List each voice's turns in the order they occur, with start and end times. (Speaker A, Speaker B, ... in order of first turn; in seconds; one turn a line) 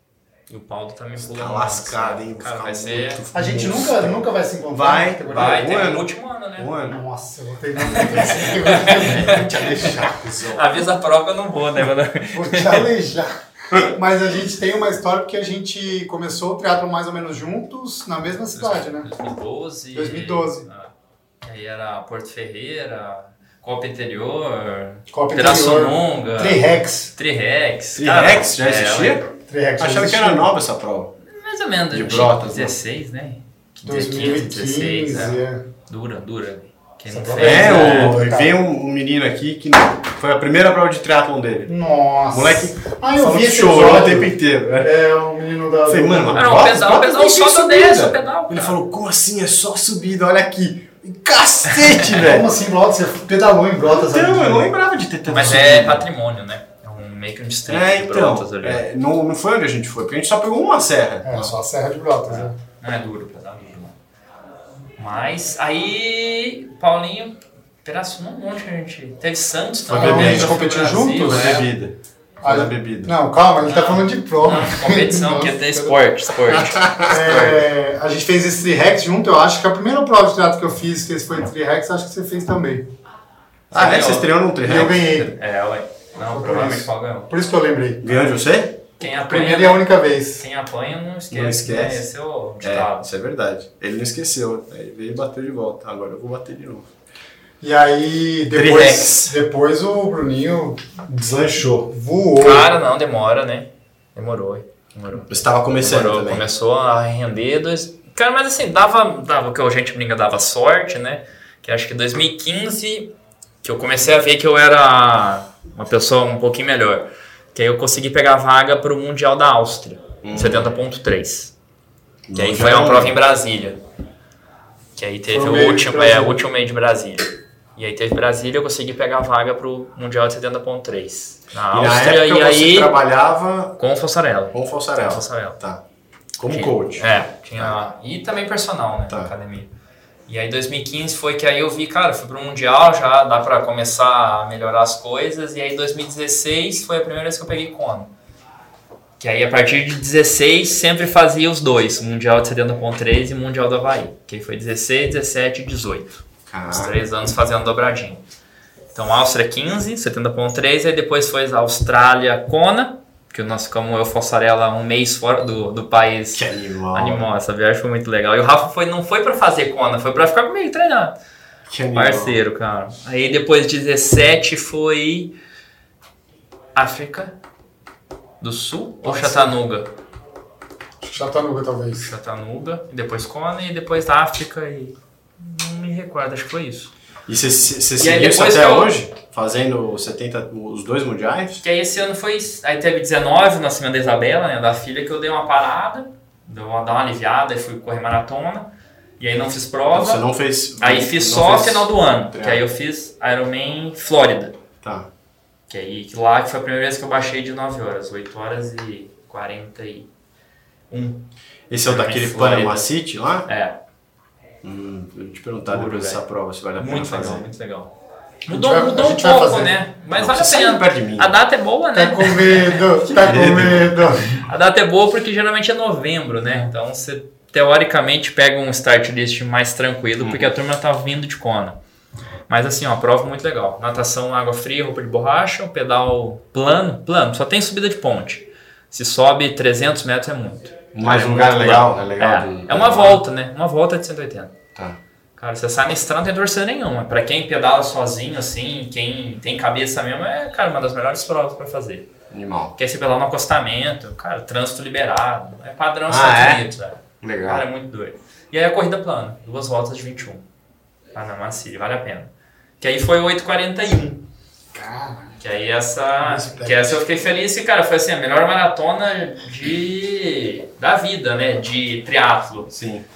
Speaker A: 0.5-3.2
Speaker B: 1.2-7.0
Speaker C: 3.3-5.6
Speaker A: 5.3-6.7
Speaker C: 6.8-9.6
Speaker A: 7.8-9.9
Speaker B: 8.1-10.8
Speaker A: 10.5-12.9
Speaker C: 12.3-19.1
Speaker A: 18.5-26.6
Speaker C: 19.9-20.7
Speaker C: 25.1-27.1
Speaker A: 27.2-29.3
Speaker B: 28.0-29.2
Speaker C: 29.4-30.5
Speaker B: 29.8-31.1
Speaker A: 31.2-38.3
Speaker B: 31.9-32.8
Speaker C: 33.9-35.7
Speaker C: 37.1-38.6
Speaker B: 37.4-41.7
Speaker C: 41.7-46.5
Speaker B: 42.3-44.9
Speaker B: 45.9-52.5
Speaker A: 46.4-48.8
Speaker C: 52.1-54.7
Speaker B: 53.9-56.1
Speaker A: 55.3-58.8
Speaker B: 57.7-61.5
Speaker C: 61.2-62.6
Speaker A: 62.3-64.0
Speaker A: 65.0-71.7
Speaker B: 69.9-73.1
Speaker C: 69.9-71.7
Speaker C: 72.4-82.9
Speaker A: 73.6-77.5
Speaker B: 76.8-77.6
Speaker B: 83.7-85.0
Speaker A: 83.7-87.3
Speaker C: 84.6-85.4
Speaker C: 86.2-88.1
Speaker B: 88.0-88.8
Speaker A: 89.0-89.9
Speaker C: 89.1-90.4
Speaker A: 90.4-93.1
Speaker B: 91.3-92.0
Speaker B: 92.6-96.9
Speaker C: 97.6-101.0
Speaker B: 98.5-99.4
Speaker B: 101.1-101.9
Speaker C: 101.9-102.7
Speaker A: 102.4-121.5
Speaker B: 105.3-106.5
Speaker B: 120.2-120.7
Speaker B: 122.3-123.2
Speaker A: 122.3-123.8
Speaker A: 125.0-132.9
Speaker C: 125.3-126.4
Speaker B: 131.7-133.8
Speaker A: 133.8-135.6
Speaker B: 134.5-135.8
Speaker B: 136.4-137.9
Speaker A: 136.5-139.7
Speaker A: 140.3-148.1
Speaker A: 149.2-158.2
Speaker B: 156.5-156.9
Speaker A: 158.9-171.2
Speaker B: 166.3-167.3
Speaker B: 171.7-172.4
Speaker A: 171.9-175.3
Speaker A: 176.8-177.4
Speaker A: 178.4-179.9
Speaker C: 179.0-179.6
Speaker C: 181.0-182.1
Speaker A: 182.0-186.9
Speaker B: 187.3-191.6
Speaker A: 188.0-188.9
Speaker A: 191.6-204.6
Speaker B: 199.9-202.6
Speaker B: 204.8-205.1
Speaker A: 205.7-210.1
Speaker A: 210.9-211.2
Speaker B: 211.7-213.5
Speaker A: 211.8-212.9
Speaker A: 213.4-213.8
Speaker B: 214.6-217.5
Speaker A: 215.7-216.2
Speaker A: 216.8-217.9
Speaker C: 218.5-219.8
Speaker A: 218.5-222.9
Speaker B: 220.2-221.3
Speaker C: 221.9-224.4
Speaker B: 223.1-224.0
Speaker A: 224.4-231.8
Speaker B: 230.2-230.4
Speaker A: 232.5-244.5
Speaker B: 240.9-243.2
Speaker A: 245.4-252.1
Speaker B: 252.3-252.8
Speaker A: 252.8-260.4
Speaker B: 256.1-256.7
Speaker B: 257.2-257.7
Speaker A: 261.1-264.2
Speaker B: 264.8-265.2
Speaker A: 265.4-272.7
Speaker B: 266.2-267.0
Speaker B: 272.7-273.1